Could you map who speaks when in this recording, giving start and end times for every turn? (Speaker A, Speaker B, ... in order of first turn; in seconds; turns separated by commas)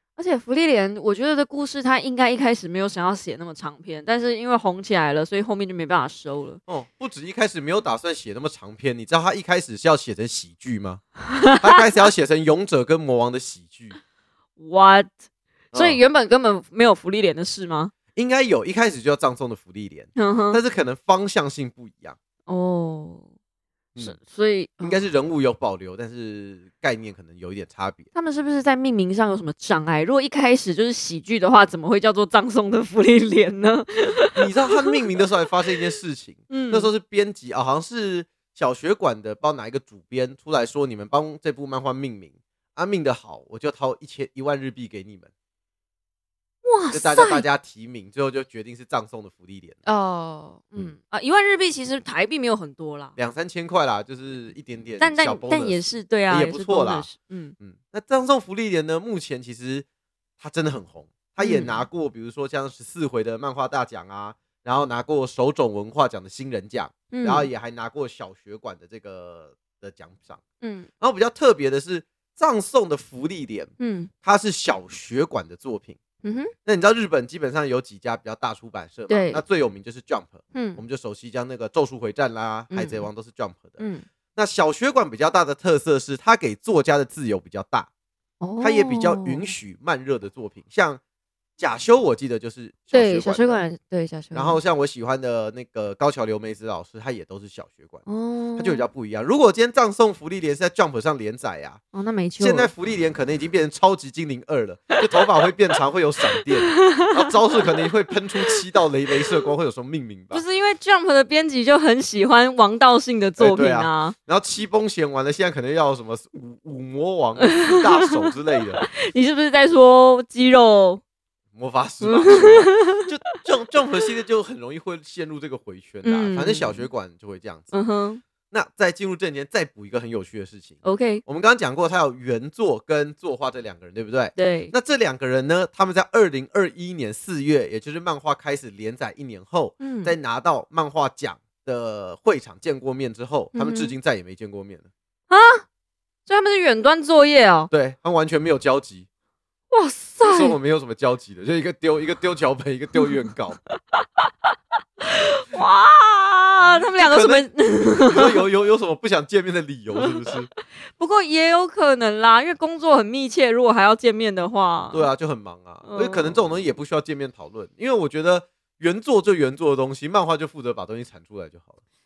Speaker A: 0.2-6.6, Speaker B: 6.7-11.0, Speaker A: 11.3-11.8, Speaker B: 11.6-14.0, Speaker A: 14.6-15.1, Speaker B: 15.7-16.0, Speaker A: 15.7-17.9, Speaker B: 18.1-22.2, Speaker A: 20.2-20.6, Speaker A: 22.5-23.2, Speaker A: 24.0-25.0, Speaker B: 24.8-28.1, Speaker A: 28.1-34.9, Speaker B: 34.4-45.3, Speaker A: 36.5-36.9, Speaker A: 46.6-47.4, Speaker B: 46.9-49.8, Speaker A: 49.9-53.1, Speaker B: 53.2-59.9, Speaker A: 55.0-57.5, Speaker B: 60.4-70.4, Speaker A: 61.4-61.9, Speaker A: 67.1-67.5, Speaker A: 70.6-70.9, Speaker B: 71.0-73.7, Speaker A: 73.8-74.1, Speaker B: 74.2-76.0, Speaker A: 76.2-76.5, Speaker B: 76.7-83.8, Speaker A: 79.1-79.4, Speaker A: 80.5-80.8, Speaker A: 82.7-83.1, Speaker A: 83.8-84.0, Speaker B: 84.3-87.9, Speaker A: 88.4-89.5, Speaker B: 88.6-91.0, Speaker B: 91.6-93.6, Speaker A: 92.9-94.6, Speaker B: 94.3-98.0, Speaker A: 98.1-98.8, Speaker B: 98.6-101.8, Speaker A: 101.9-102.7, Speaker B: 102.4-110.4, Speaker A: 106.4-107.2, Speaker A: 110.3-114.2, Speaker B: 113.4-118.9, Speaker A: 117.4-118.1, Speaker A: 118.8-121.0, Speaker B: 121.5-127.7, Speaker A: 122.0-123.1, Speaker A: 126.0-126.9, Speaker A: 127.7-128.2, Speaker B: 128.5-144.9, Speaker A: 130.8-131.2, Speaker A: 134.4-134.7, Speaker A: 139.8-140.1, Speaker A: 143.6-143.9, Speaker A: 145.3-145.6, Speaker A: 146.3-147.7, Speaker B: 147.7-149.1, Speaker A: 149.7-150.6, Speaker B: 150.2-153.6, Speaker A: 153.9-154.3, Speaker A: 155.0-158.4, Speaker B: 156.6-157.5, Speaker B: 158.0-160.5, Speaker A: 160.9-165.1, Speaker B: 164.9-171.8, Speaker A: 165.8-166.4